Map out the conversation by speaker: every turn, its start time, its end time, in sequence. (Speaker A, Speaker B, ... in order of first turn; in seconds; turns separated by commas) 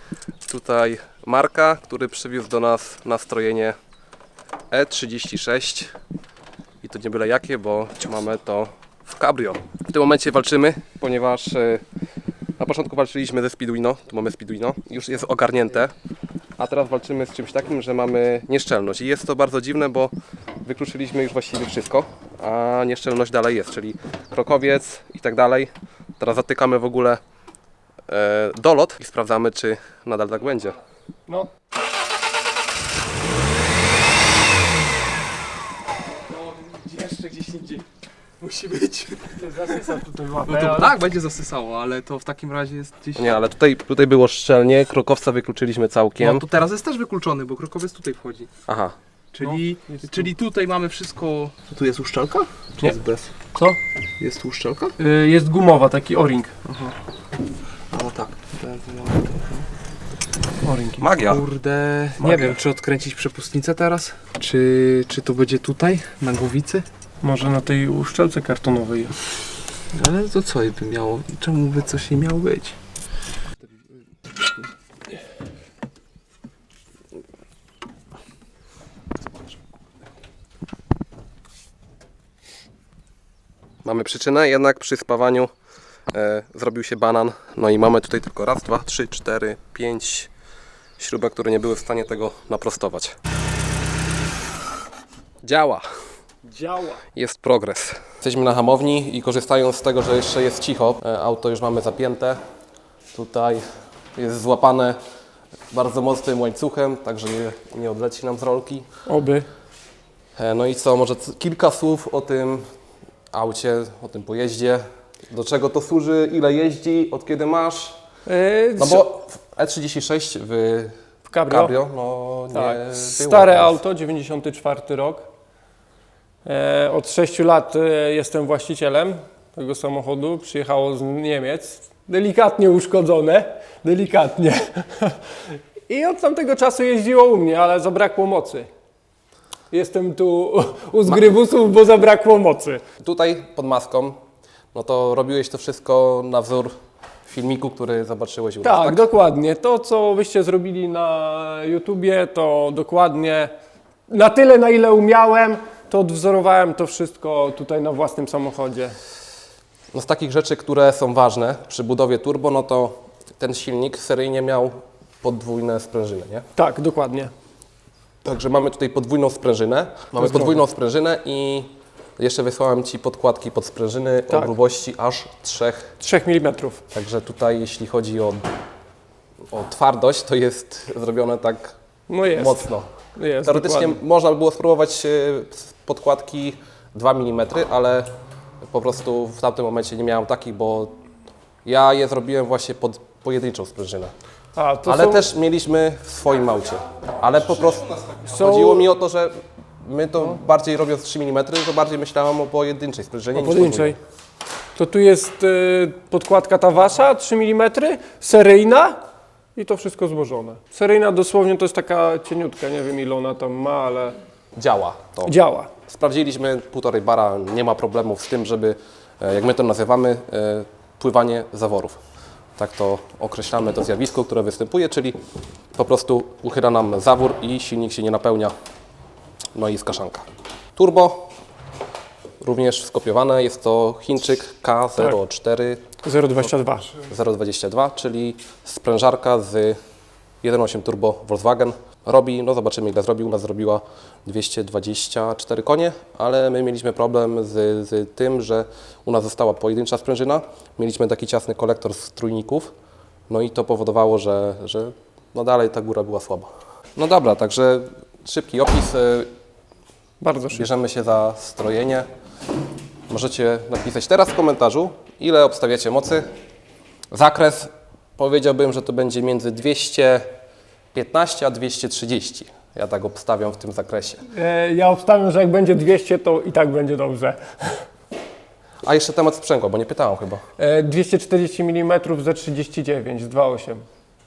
Speaker A: 0.5-3.8, Speaker A: 4.7-5.9, Speaker A: 6.8-11.8, Speaker A: 12.6-15.9, Speaker A: 16.6-27.2, Speaker A: 28.1-30.8, Speaker B: 36.3-37.9, Speaker B: 38.4-39.6, Speaker C: 39.4-41.0, Speaker B: 40.5-43.4, Speaker A: 43.2-46.5, Speaker B: 46.2-48.5, Speaker A: 48.7-49.0, Speaker B: 49.3-53.3, Speaker C: 49.4-50.3, Speaker B: 54.2-54.9, Speaker C: 55.0-56.5, Speaker B: 56.7-57.0, Speaker B: 57.9-59.7, Speaker C: 60.6-61.2, Speaker A: 61.0-61.4, Speaker B: 61.3-66.9, Speaker C: 67.2-69.2, Speaker B: 69.9-72.8, Speaker A: 83.8-85.5, Speaker A: 86.1-90.3, Speaker A: 91.0-93.2, Speaker A: 95.4-95.8, Speaker C: 96.5-97.0, Speaker A: 97.2-102.4, Speaker A: 103.1-103.7, Speaker A: 104.2-105.0, Speaker A: 105.7-108.9, Speaker C: 109.1-109.5, Speaker A: 110.4-112.7, Speaker A: 113.3-118.0, Speaker C: 118.3-119.0, Speaker A: 118.8-120.9, Speaker C: 121.3-121.7, Speaker A: 121.5-123.8, Speaker C: 122.5-125.2, Speaker C: 126.5-138.7, Speaker C: 139.7-142.8, Speaker A: 143.0-144.2, Speaker A: 144.7-146.7, Speaker A: 147.3-149.0, Speaker C: 148.6-153.5, Speaker C: 154.1-159.0, Speaker A: 159.9-166.4, Speaker C: 166.6-167.3, Speaker A: 168.2-175.9, Speaker C: 170.2-170.6, Speaker C: 176.0-176.8, Speaker A: 176.9-178.4, Speaker A: 179.5-181.7, Speaker C: 182.1-184.0, Speaker A: 182.3-182.9, Speaker A: 183.4-188.1, Speaker A: 188.6-190.9, Speaker A: 191.7-194.1, Speaker C: 194.6-195.2, Speaker A: 194.8-204.0, Speaker C: 198.2-198.9, Speaker C: 203.3-204.0, Speaker C: 204.8-209.0, Speaker C: 209.6-214.2, Speaker A: 214.6-215.3, Speaker C: 215.2-215.7, Speaker A: 215.9-222.0, Speaker A: 222.6-225.2, Speaker A: 225.8-228.5, Speaker A: 229.6-231.3, Speaker A: 232.4-235.8, Speaker C: 236.0-237.0, Speaker A: 237.0-239.8, Speaker A: 240.4-252.7, Speaker A: 253.3-259.3, Speaker C: 260.2-260.7, Speaker A: 260.5-262.1, Speaker A: 263.1-266.3, Speaker A: 267.1-270.3, Speaker A: 270.9-274.2, Speaker C: 274.3-277.9, Speaker A: 278.8-280.4, Speaker C: 280.6-283.9